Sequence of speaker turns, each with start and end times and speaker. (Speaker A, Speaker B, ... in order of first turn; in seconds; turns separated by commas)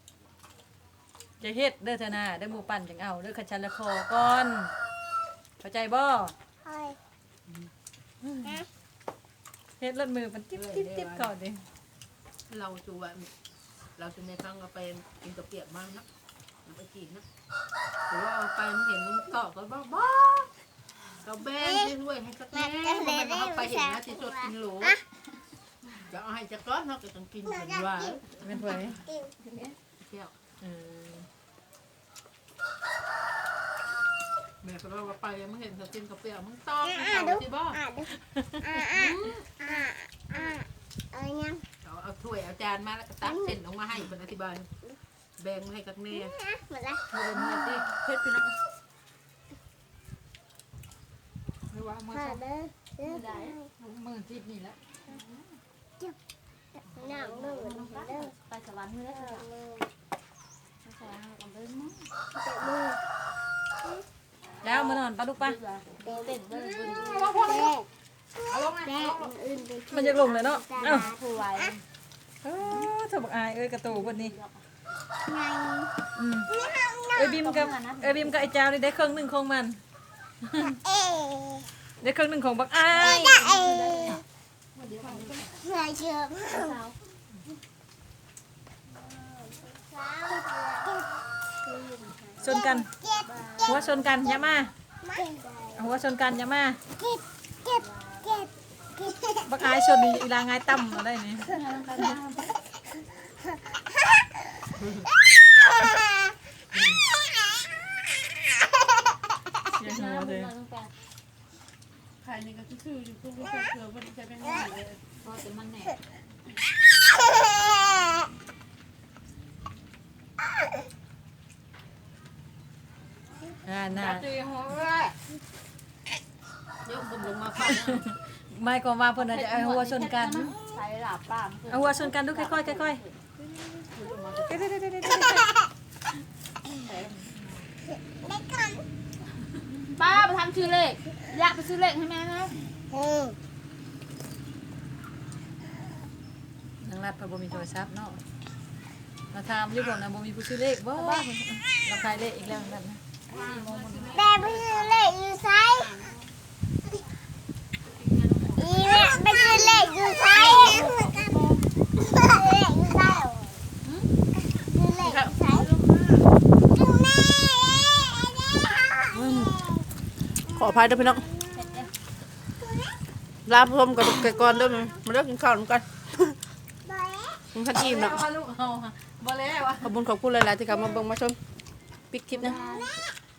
Speaker A: 1.4-4.7, Speaker A: 5.6-6.3, Speaker B: 6.7-7.0, Speaker A: 8.2-8.6, Speaker A: 9.8-11.6, Speaker C: 10.5-11.3, Speaker C: 12.5-13.3, Speaker C: 14.0-16.1, Speaker C: 16.7-17.2, Speaker C: 18.1-20.5, Speaker C: 21.2-25.0, Speaker B: 21.6-21.9, Speaker B: 22.5-25.0, Speaker C: 26.1-29.0, Speaker B: 27.5-29.3, Speaker A: 28.4-29.0, Speaker D: 29.5-29.7, Speaker C: 30.0-30.3, Speaker A: 30.6-31.3, Speaker C: 34.6-37.8, Speaker B: 36.9-38.1, Speaker A: 38.3-38.8, Speaker B: 38.6-41.6, Speaker E: 38.9-39.4, Speaker C: 41.8-44.7, Speaker B: 43.2-43.5, Speaker C: 45.4-46.3, Speaker B: 46.1-47.0, Speaker A: 47.1-47.9, Speaker E: 48.0-48.6, Speaker A: 51.7-52.4, Speaker B: 52.1-53.6, Speaker D: 53.0-53.6, Speaker A: 53.8-54.8, Speaker D: 55.1-55.5, Speaker B: 56.9-58.3, Speaker D: 57.0-59.5, Speaker B: 59.1-59.9, Speaker D: 60.9-62.1, Speaker B: 62.4-63.0, Speaker A: 64.6-65.6, Speaker D: 64.6-67.2, Speaker B: 66.0-67.9, Speaker C: 67.0-67.7, Speaker B: 68.4-71.7, Speaker C: 68.5-69.3, Speaker A: 69.9-71.1, Speaker D: 71.0-71.8, Speaker E: 71.3-71.6, Speaker A: 72.4-74.3, Speaker E: 74.3-74.6, Speaker B: 75.2-75.9, Speaker A: 76.2-76.5, Speaker B: 76.5-77.3, Speaker A: 77.1-79.8, Speaker D: 77.3-78.5, Speaker A: 80.4-80.8, Speaker B: 80.8-81.7, Speaker A: 82.0-83.6, Speaker B: 83.0-84.2, Speaker D: 83.0-84.2, Speaker D: 84.8-85.5, Speaker E: 85.0-85.3, Speaker B: 85.5-86.8, Speaker D: 86.5-87.0, Speaker B: 89.1-91.1, Speaker D: 91.7-92.3, Speaker A: 92.4-92.9, Speaker B: 92.4-93.3, Speaker D: 93.2-94.7, Speaker A: 93.7-94.7, Speaker B: 95.0-95.9, Speaker A: 95.8-96.8, Speaker B: 97.0-99.6, Speaker D: 97.8-98.4, Speaker A: 99.5-101.5, Speaker D: 101.4-102.5, Speaker A: 109.7-110.5, Speaker D: 109.8-110.9, Speaker E: 112.2-114.9, Speaker D: 115.1-116.0, Speaker A: 123.7-124.3, Speaker E: 124.0-125.1, Speaker C: 126.8-128.1, Speaker A: 127.7-130.5, Speaker D: 129.2-133.1, Speaker E: 129.8-131.7, Speaker A: 131.7-133.0, Speaker C: 134.0-134.4, Speaker A: 134.4-135.6, Speaker B: 138.1-138.8, Speaker D: 139.9-142.6, Speaker E: 140.0-140.6, Speaker B: 143.0-143.3, Speaker A: 146.8-148.2, Speaker A: 149.3-153.0, Speaker D: 153.3-155.1, Speaker E: 153.3-154.2, Speaker C: 153.9-154.2, Speaker B: 154.1-156.0, Speaker D: 155.8-156.3, Speaker D: 158.2-158.9, Speaker B: 158.6-161.4, Speaker D: 160.3-161.6, Speaker E: 161.1-161.6, Speaker B: 162.1-163.6, Speaker B: 164.5-165.7, Speaker E: 165.0-166.2, Speaker B: 166.7-169.9, Speaker E: 169.1-169.6, Speaker E: 170.5-171.3, Speaker B: 170.5-171.8, Speaker D: 171.6-171.9, Speaker E: 173.5-176.4, Speaker B: 174.4-174.9, Speaker B: 176.9-177.4, Speaker E: 177.5-178.2, Speaker A: 177.8-179.9, Speaker E: 179.8-181.4, Speaker E: 182.1-182.6, Speaker D: 182.3-182.9, Speaker B: 182.4-182.9